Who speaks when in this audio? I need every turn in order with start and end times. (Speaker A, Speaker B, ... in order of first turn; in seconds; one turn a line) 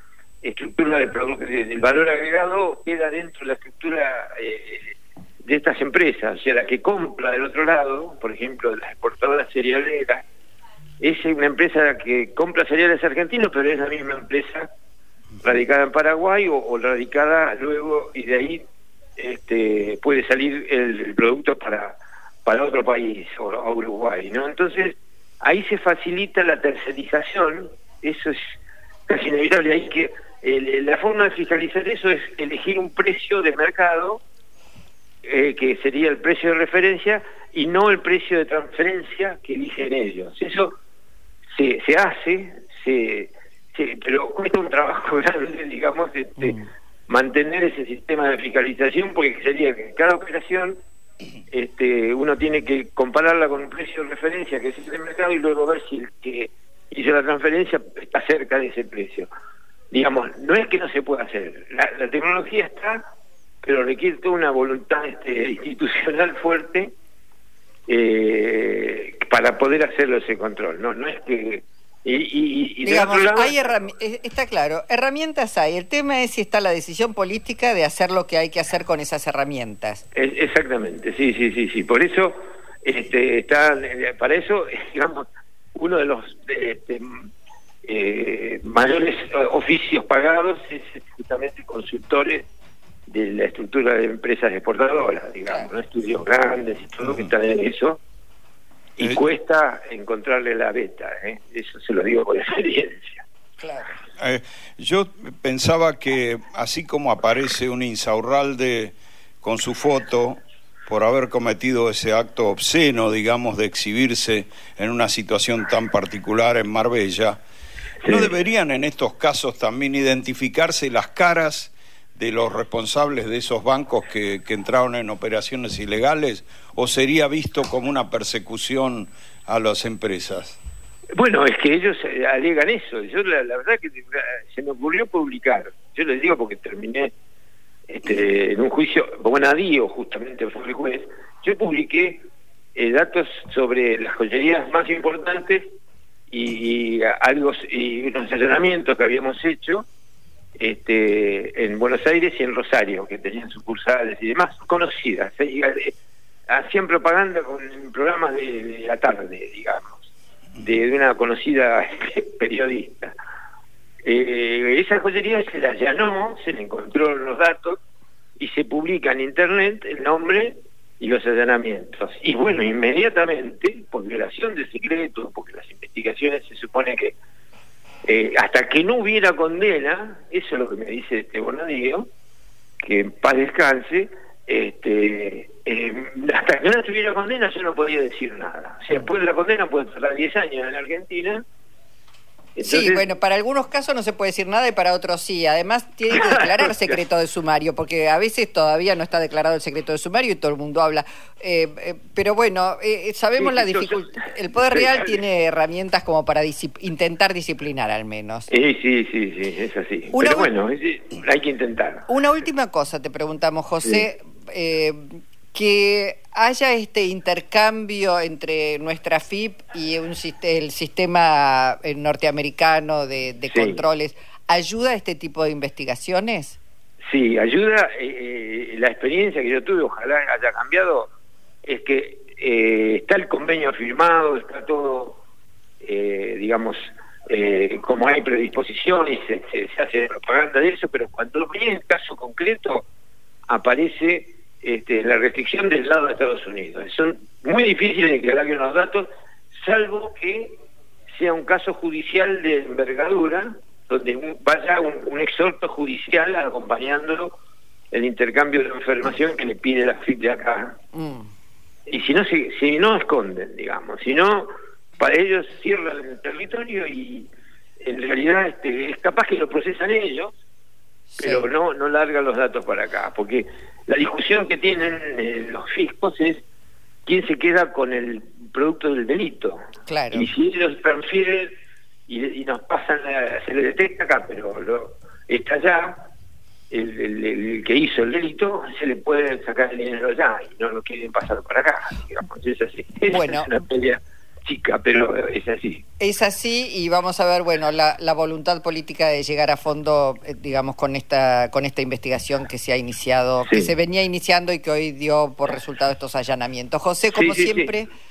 Speaker A: 0.4-10.2
Speaker A: 11.0-14.7
Speaker A: 15.4-18.6
Speaker A: 19.2-28.4
Speaker A: 29.1-34.2
Speaker A: 35.2-40.7
Speaker A: 41.5-46.6
Speaker B: 46.4-46.7
Speaker A: 47.1-50.8
Speaker A: 51.5-59.3
Speaker A: 59.9-63.0
Speaker A: 63.6-66.9
Speaker A: 67.9-73.9
Speaker B: 72.8-80.0
Speaker A: 80.1-87.2
Speaker A: 87.8-92.5
Speaker A: 93.1-98.0
Speaker C: 97.0-97.3
Speaker A: 99.0-103.2
Speaker B: 103.6-104.0
Speaker C: 104.2-117.4
Speaker A: 118.0-118.3
Speaker C: 118.1-130.6
Speaker A: 131.2-137.1
Speaker A: 137.9-142.2
Speaker A: 142.8-145.7
Speaker A: 146.3-149.9
Speaker A: 150.6-155.9
Speaker A: 156.5-160.1
Speaker A: 160.6-163.1
Speaker A: 164.0-167.8
Speaker A: 168.4-177.2
Speaker A: 178.1-182.1
Speaker A: 182.8-191.4
Speaker A: 192.6-193.0
Speaker B: 192.6-208.5
Speaker A: 196.1-197.0
Speaker A: 203.4-205.2
Speaker A: 208.5-212.1
Speaker B: 210.1-210.5
Speaker B: 212.1-226.6
Speaker A: 223.5-223.8
Speaker A: 227.1-231.1
Speaker A: 231.6-235.2
Speaker A: 235.8-242.8
Speaker A: 243.5-250.6
Speaker A: 251.1-257.4
Speaker A: 257.9-260.8
Speaker B: 260.9-261.3
Speaker A: 261.9-267.3
Speaker A: 267.8-270.4
Speaker B: 271.1-271.5
Speaker A: 271.2-276.4
Speaker A: 277.1-279.6
Speaker B: 279.9-280.3
Speaker A: 280.1-281.5
Speaker A: 282.1-286.0
Speaker A: 286.7-295.8
Speaker B: 293.1-293.5
Speaker B: 296.0-307.9
Speaker A: 303.5-303.7
Speaker A: 307.1-307.7